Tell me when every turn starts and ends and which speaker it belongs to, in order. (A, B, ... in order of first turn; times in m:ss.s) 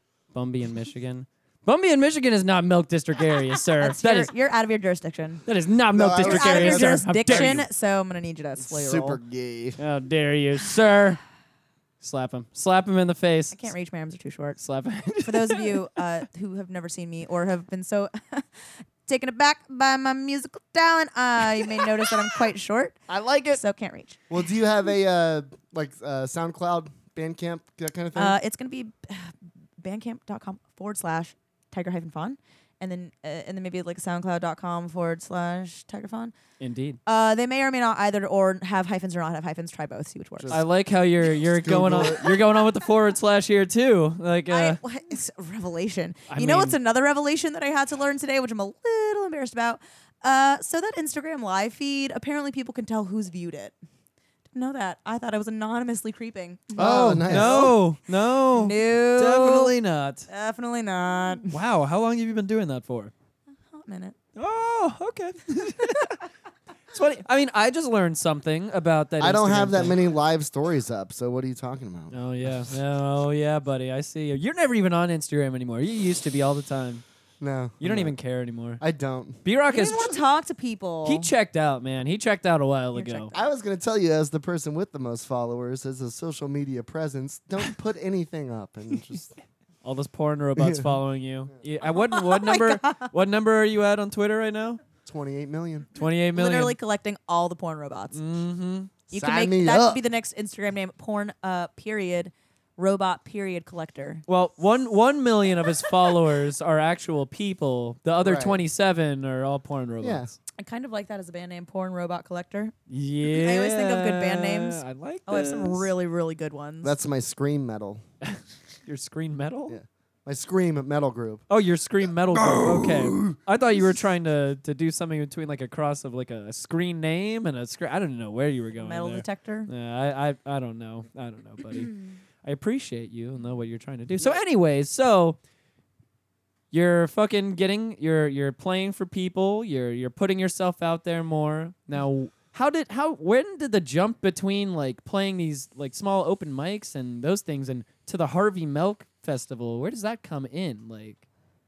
0:00.3-0:04.3 A
0:03.8-0:05.4 B
0:05.4-0:07.6 A
0:05.9-0:07.7 C
0:06.2-0:09.2 B
0:08.6-0:09.8 C
0:09.8-0:11.2 A
0:12.0-0:13.6 A
0:13.5-0:14.6 B
0:14.6-0:15.8 A
0:15.2-0:18.5 B
0:19.0-0:24.2 B
0:23.1-0:23.6 A
0:24.3-0:28.4 C
0:28.1-0:36.3 B
0:36.6-0:37.0 A
0:37.0-0:40.6 B
0:40.4-0:40.6 C
0:40.5-0:44.8 A
0:41.4-0:42.2 C
0:44.5-0:53.7 B
0:46.3-0:46.8 A
0:54.5-0:57.8 B
0:56.8-1:00.3 A
0:56.8-0:57.8 C
0:58.5-0:59.7 B
1:00.3-1:01.5 B
1:01.5-1:03.1 A
1:03.7-1:04.2 B
1:04.4-1:06.2 A
1:06.9-1:10.0 A
1:09.2-1:12.5 C
1:12.1-1:17.0 A
1:17.4-1:18.2 C
1:17.8-1:18.8 A
1:18.8-1:19.4 C
1:19.4-1:20.1 A
1:19.7-1:21.3 B
1:21.0-1:23.3 A
1:22.9-1:23.5 B
1:23.3-1:29.3 C
1:29.8-1:34.8 A
1:30.6-1:30.9 C
1:32.2-1:33.0 B
1:35.0-1:35.9 C
1:36.0-1:36.8 A
1:36.3-1:38.2 B
1:38.1-1:38.9 A
1:39.1-1:44.2 B
1:39.1-1:40.0 C
1:44.3-1:50.3 A
1:48.2-1:48.6 C
1:50.0-1:50.3 C
1:50.6-1:52.7 B
1:52.9-1:55.9 A
1:53.3-1:56.9 B
1:56.8-1:58.0 C
1:58.2-1:59.8 A
1:59.7-2:01.4 C
2:01.5-2:15.4 A
2:02.3-2:03.4 C
2:08.8-2:09.7 B
2:16.7-2:31.2 A